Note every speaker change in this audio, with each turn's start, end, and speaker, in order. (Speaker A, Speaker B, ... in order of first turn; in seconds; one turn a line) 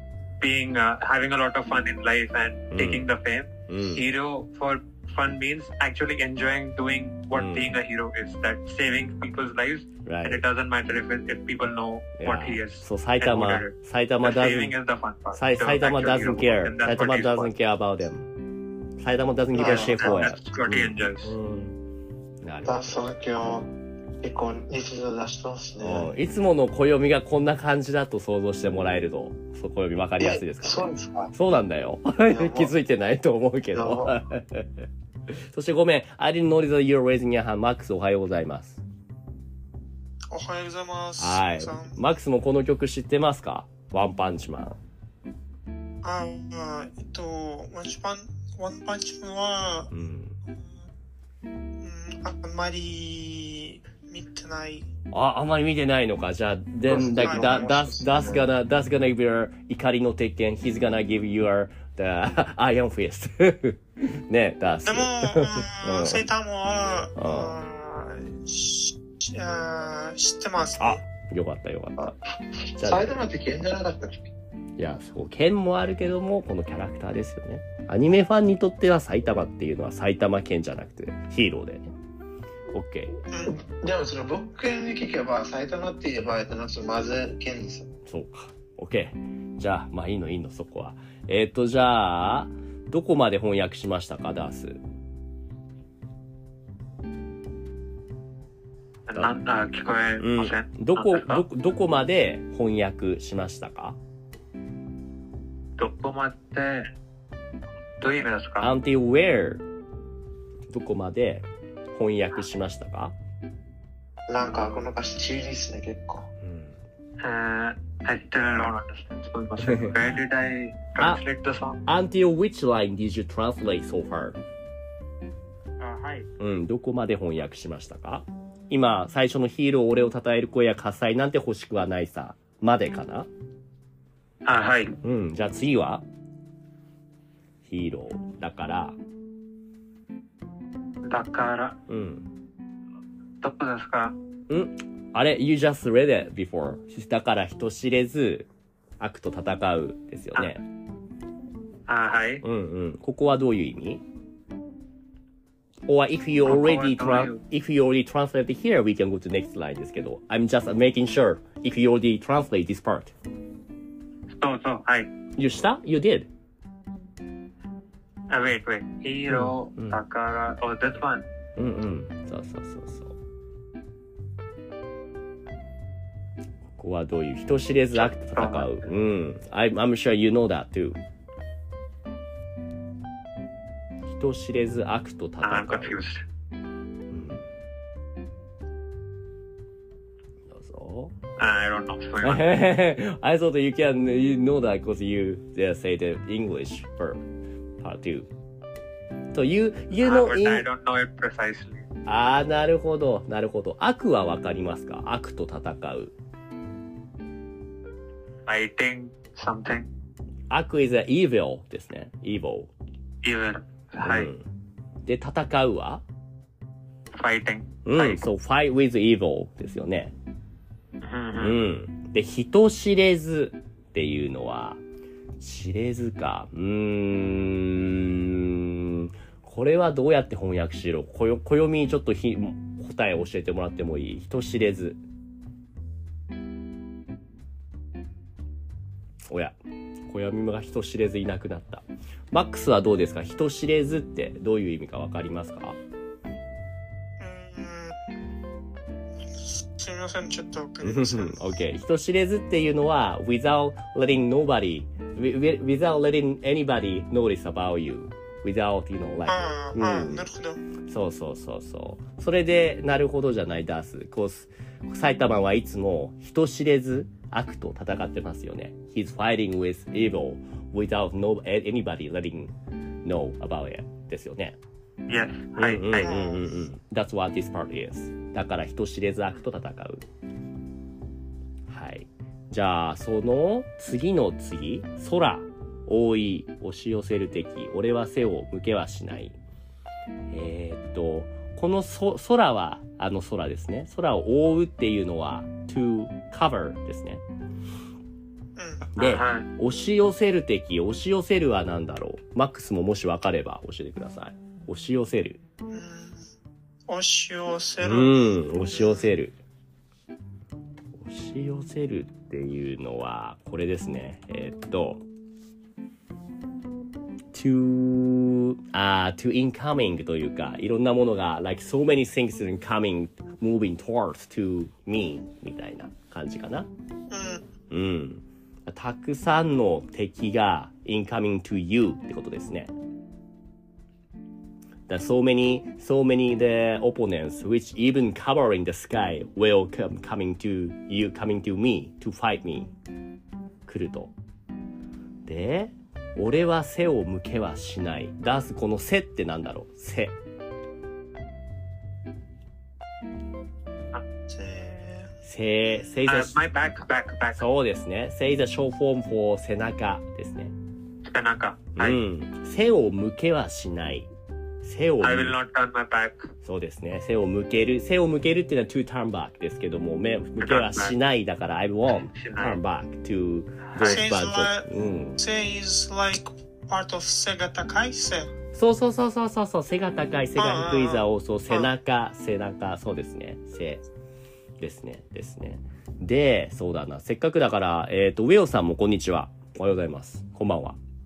Speaker A: 0.4-17.5
Speaker B: 2.7-3.1
Speaker B: 3.7-4.0
Speaker B: 7.3-7.8
Speaker B: 10.0-10.4
Speaker B: 12.2-14.7
Speaker B: 15.3-18.3
Speaker B: 19.0-21.8
Speaker C: 19.5-20.3
Speaker A: 19.9-21.3
Speaker B: 22.4-22.8
Speaker C: 22.6-26.1
Speaker B: 25.8-30.8
Speaker C: 30.2-31.3
Speaker B: 31.3-38.8
Speaker C: 32.2-32.7
Speaker C: 33.7-34.2
Speaker D: 40.3-41.9
Speaker B: 41.2-44.8
Speaker D: 46.0-49.9
Speaker B: 49.9-50.4
Speaker D: 51.8-54.9
Speaker B: 55.1-66.3
Speaker C: 56.9-58.5
Speaker D: 57.2-57.5
Speaker D: 64.8-71.0
Speaker B: 67.1-67.5
Speaker B: 70.8-72.1
Speaker C: 72.7-74.2
Speaker B: 72.8-73.2
Speaker B: 74.8-81.9
Speaker B: 82.7-83.2
Speaker D: 83.3-83.5
Speaker C: 83.5-87.9
Speaker B: 88.1-94.8
Speaker A: 99.1-101.4
Speaker B: 100.2-104.0
Speaker A: 105.8-106.9
Speaker A: 108.0-108.7
Speaker B: 108.6-109.6
Speaker B: 110.7-113.1
Speaker C: 114.3-116.3
Speaker B: 116.4-116.8
Speaker A: 117.2-121.8
Speaker B: 119.6-120.0
Speaker B: 121.0-121.2
Speaker B: 121.8-124.4
Speaker A: 125.8-126.3
Speaker B: 126.4-133.3
Speaker A: 134.4-135.0
Speaker B: 135.0-136.0
Speaker B: 137.6-138.9
Speaker A: 141.0-141.8
Speaker B: 141.9-142.3
Speaker A: 143.4-144.1
Speaker B: 144.5-148.5
Speaker B: 149.0-150.6
Speaker A: 151.9-152.4
Speaker B: 152.4-154.0
Speaker B: 155.9-163.1
Speaker A: 156.4-157.4
Speaker A: 164.3-165.1
Speaker B: 165.3-166.3
Speaker A: 168.3-171.2
Speaker B: 169.3-170.0
Speaker B: 171.6-173.2
Speaker B: 176.8-181.0
Speaker A: 177.9-178.9
Speaker B: 184.1-186.0
Speaker A: 185.4-186.2
Speaker B: 187.1-187.4
Speaker B: 190.5-191.1
Speaker A: 191.4-192.5
Speaker B: 192.2-197.2
Speaker B: 197.8-198.3
Speaker B: 199.3-200.7
Speaker A: 200.0-201.9
Speaker B: 202.1-206.1
Speaker A: 208.4-209.9
Speaker B: 210.5-212.7
Speaker A: 213.2-214.3
Speaker B: 214.0-214.4
Speaker B: 215.1-216.0
Speaker A: 217.1-218.2
Speaker B: 217.8-220.1
Speaker A: 221.0-221.6
Speaker B: 221.4-224.8
Speaker B: 225.4-235.0
Speaker B: 239.3-239.6
Speaker B: 240.1-245.8
Speaker D: 247.2-247.9
Speaker D: 249.7-251.4
Speaker B: 250.8-260.3
Speaker D: 259.3-260.6
Speaker B: 260.8-274.6
Speaker A: 275.1-276.2
Speaker B: 275.6-280.1
Speaker D: 276.0-276.4
Speaker B: 281.7-289.4
Speaker B: 290.3-297.2
Speaker D: 298.6-298.8
Speaker B: 298.9-305.4
Speaker A: 299.0-299.5
Speaker D: 305.7-306.1
Speaker D: 306.9-309.1
Speaker B: 307.8-309.4
Speaker B: 310.9-315.0
Speaker B: 317.3-326.7
Speaker D: 327.1-327.4
Speaker B: 327.7-332.7
Speaker B: 334.9-342.7
Speaker B: 343.6-344.1
Speaker B: 345.2-350.1
Speaker D: 354.3-355.1
Speaker B: 355.2-356.4
Speaker A: 356.1-357.4
Speaker B: 357.3-360.5
Speaker A: 361.0-362.0
Speaker B: 361.8-364.1
Speaker B: 364.6-365.4
Speaker A: 365.0-366.3
Speaker B: 366.4-375.2
Speaker A: 370.4-370.9
Speaker A: 372.1-372.6
Speaker A: 373.7-374.0
Speaker D: 373.8-378.3
Speaker B: 378.5-383.8
Speaker D: 380.4-381.7
Speaker B: 384.6-390.8